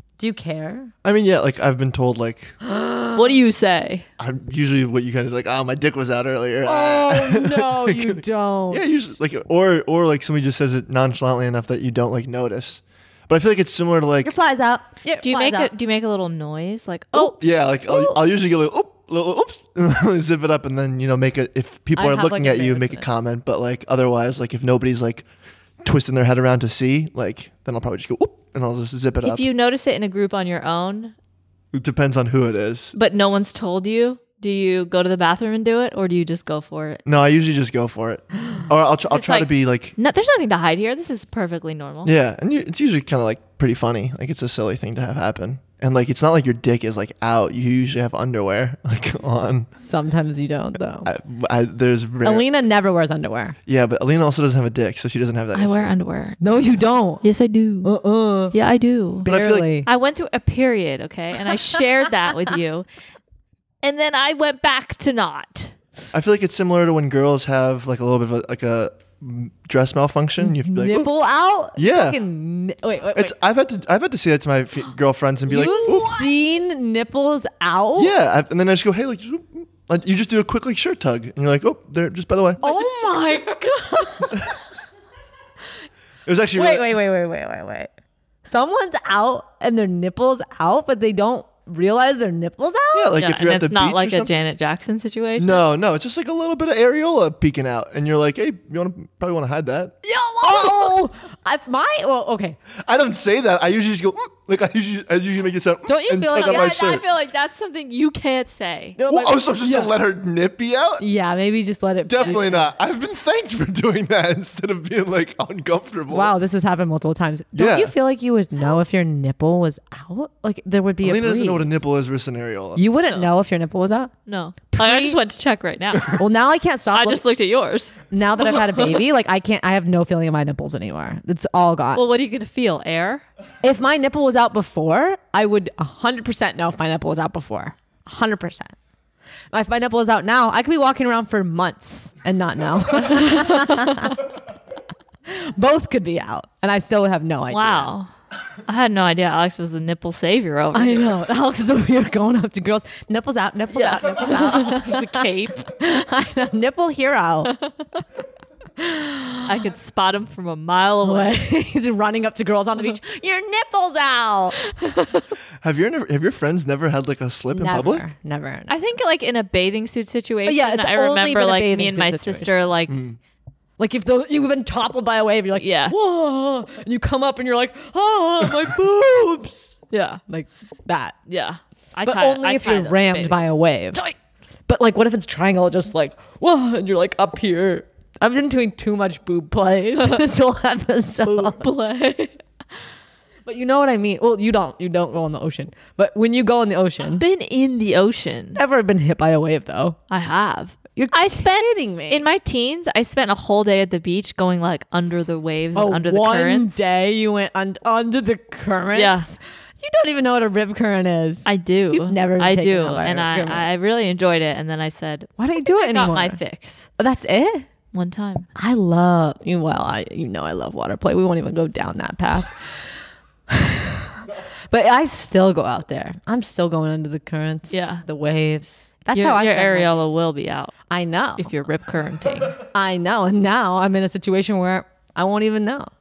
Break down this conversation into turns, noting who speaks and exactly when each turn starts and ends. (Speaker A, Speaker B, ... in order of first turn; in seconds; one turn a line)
Speaker A: 0.2-0.9
Speaker B: 1.0-2.6
Speaker A: 2.6-3.4
Speaker C: 3.1-4.1
Speaker B: 4.2-14.3
Speaker A: 6.6-8.9
Speaker A: 14.2-15.7
Speaker C: 15.2-18.2
Speaker B: 17.1-25.2
Speaker A: 21.9-23.1
Speaker B: 25.8-29.4
Speaker C: 29.2-31.1
Speaker B: 31.7-33.0
Speaker C: 33.0-37.0
Speaker B: 37.1-40.0
Speaker C: 39.1-42.1
Speaker B: 42.0-49.7
Speaker A: 49.8-51.1
Speaker B: 51.0-52.5
Speaker A: 52.2-53.6
Speaker B: 53.7-55.9
Speaker C: 55.5-56.4
Speaker A: 56.4-57.2
Speaker C: 57.2-57.9
Speaker A: 57.8-58.5
Speaker C: 58.5-59.3
Speaker A: 59.2-59.9
Speaker B: 59.3-59.7
Speaker C: 59.9-62.9
Speaker C: 63.8-65.8
Speaker B: 66.1-71.1
Speaker A: 70.4-73.3
Speaker B: 71.8-72.2
Speaker B: 73.1-76.3
Speaker A: 75.5-78.1
Speaker B: 78.0-82.6
Speaker A: 82.6-84.6
Speaker C: 82.6-83.5
Speaker B: 86.3-87.0
Speaker A: 86.5-87.9
Speaker A: 88.5-93.2
Speaker B: 92.9-94.3
Speaker C: 93.2-95.6
Speaker B: 95.4-100.9
Speaker A: 100.0-102.6
Speaker B: 102.8-107.0
Speaker A: 105.9-107.0
Speaker C: 106.3-109.0
Speaker A: 109.0-110.0
Speaker B: 109.1-111.1
Speaker A: 111.0-112.7
Speaker B: 112.1-116.3
Speaker A: 116.1-121.8
Speaker B: 117.5-117.9
Speaker B: 121.0-122.8
Speaker A: 122.8-124.1
Speaker C: 124.3-126.2
Speaker A: 124.7-125.2
Speaker A: 126.2-127.2
Speaker C: 126.9-129.0
Speaker A: 128.1-132.0
Speaker C: 131.9-133.2
Speaker A: 133.6-138.8
Speaker A: 139.5-144.3
Speaker C: 143.0-144.2
Speaker A: 145.3-147.9
Speaker C: 147.5-148.1
Speaker C: 148.7-151.1
Speaker A: 150.7-157.6
Speaker C: 153.7-155.7
Speaker C: 157.5-158.0
Speaker A: 158.8-159.6
Speaker C: 159.5-161.3
Speaker A: 161.0-164.6
Speaker C: 164.6-165.3
Speaker B: 165.6-168.1
Speaker A: 167.5-168.8
Speaker C: 168.7-173.0
Speaker A: 170.5-172.6
Speaker B: 172.9-173.2
Speaker A: 173.8-181.2
Speaker C: 175.6-176.0
Speaker C: 179.9-180.2
Speaker C: 181.3-184.2
Speaker A: 182.1-184.0
Speaker A: 184.7-191.7
Speaker C: 190.0-190.3
Speaker C: 191.2-192.4
Speaker A: 193.4-197.2
Speaker C: 197.0-198.6
Speaker A: 198.6-200.0
Speaker C: 200.1-206.8
Speaker A: 201.0-202.3
Speaker A: 205.8-213.7
Speaker C: 208.9-209.3
Speaker C: 211.5-216.9
Speaker A: 215.4-216.4
Speaker A: 217.0-217.7
Speaker C: 217.9-218.5
Speaker A: 218.6-230.1
Speaker C: 227.7-228.0
Speaker C: 229.1-230.8
Speaker A: 230.9-231.5
Speaker C: 231.4-232.6
Speaker A: 232.6-235.9